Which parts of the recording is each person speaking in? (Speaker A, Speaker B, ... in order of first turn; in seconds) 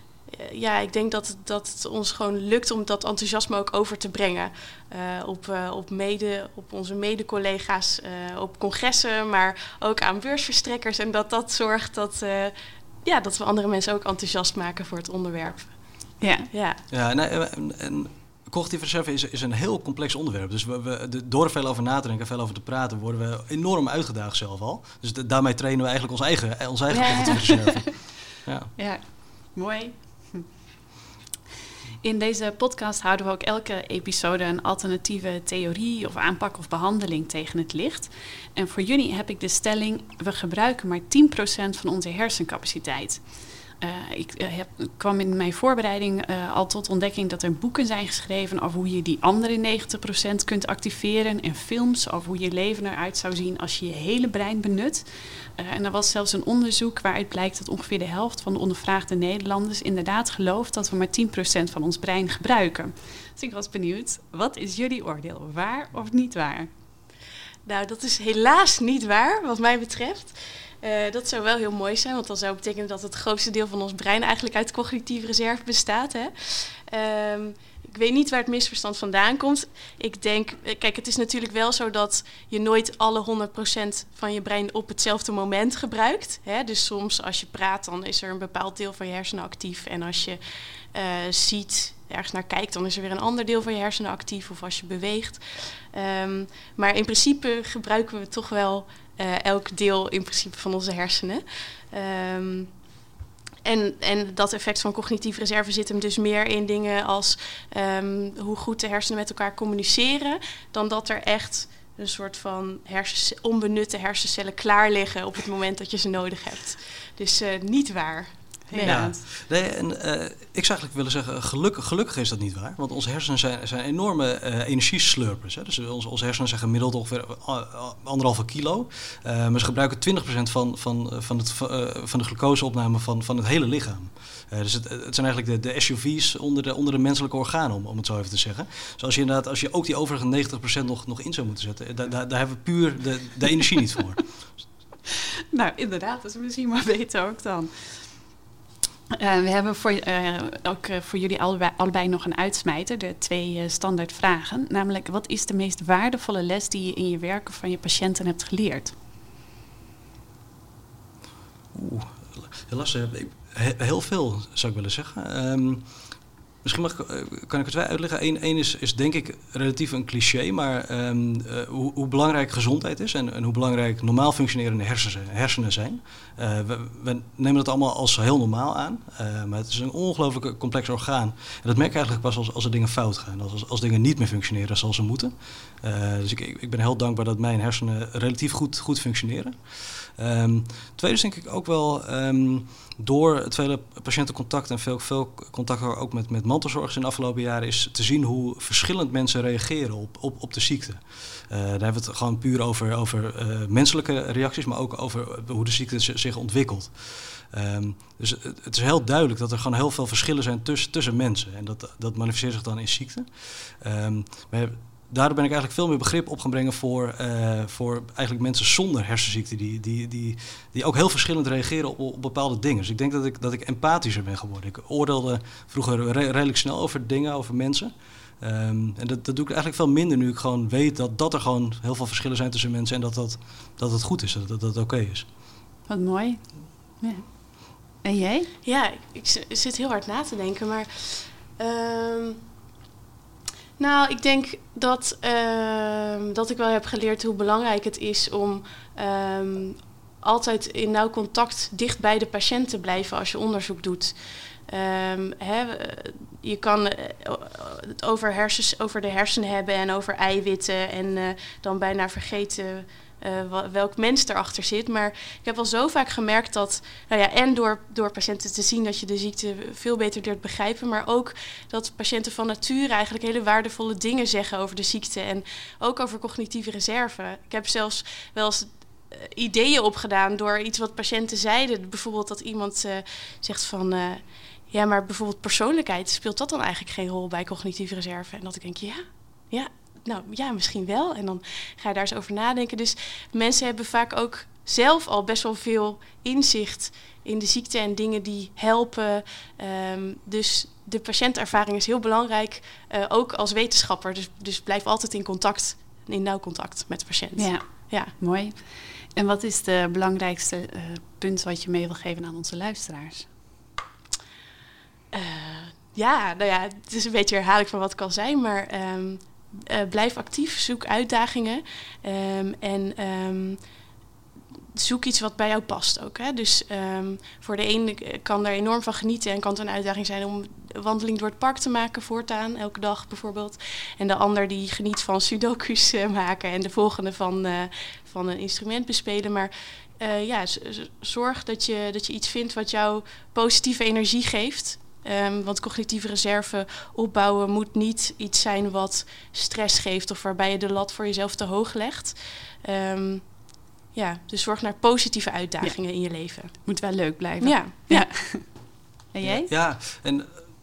Speaker A: 0.3-15.8, 16.5-16.8, 26.9-27.5, 67.7-90.4, 90.9-102.7, 103.6-119.1, 238.6-242.4, 243.8-254.1, 254.7-308.1, 315.1-323.6, 324.7-353.3, 353.9-356.5, 357.4-358.1
Speaker B: 16.2-16.5, 27.0-27.9, 28.8-30.5, 32.0-43.2, 43.8-55.0, 55.6-66.7, 118.7-119.2, 145.5-148.1, 149.1-158.9, 235.9-236.4, 237.0-237.2, 238.0-238.5, 307.4-307.6, 308.2-308.5, 309.1-313.3, 356.6-358.5, 359.1-359.5
Speaker C: 16.9-28.7, 118.8-144.2, 161.7-165.8, 166.6-235.2, 359.2-360.3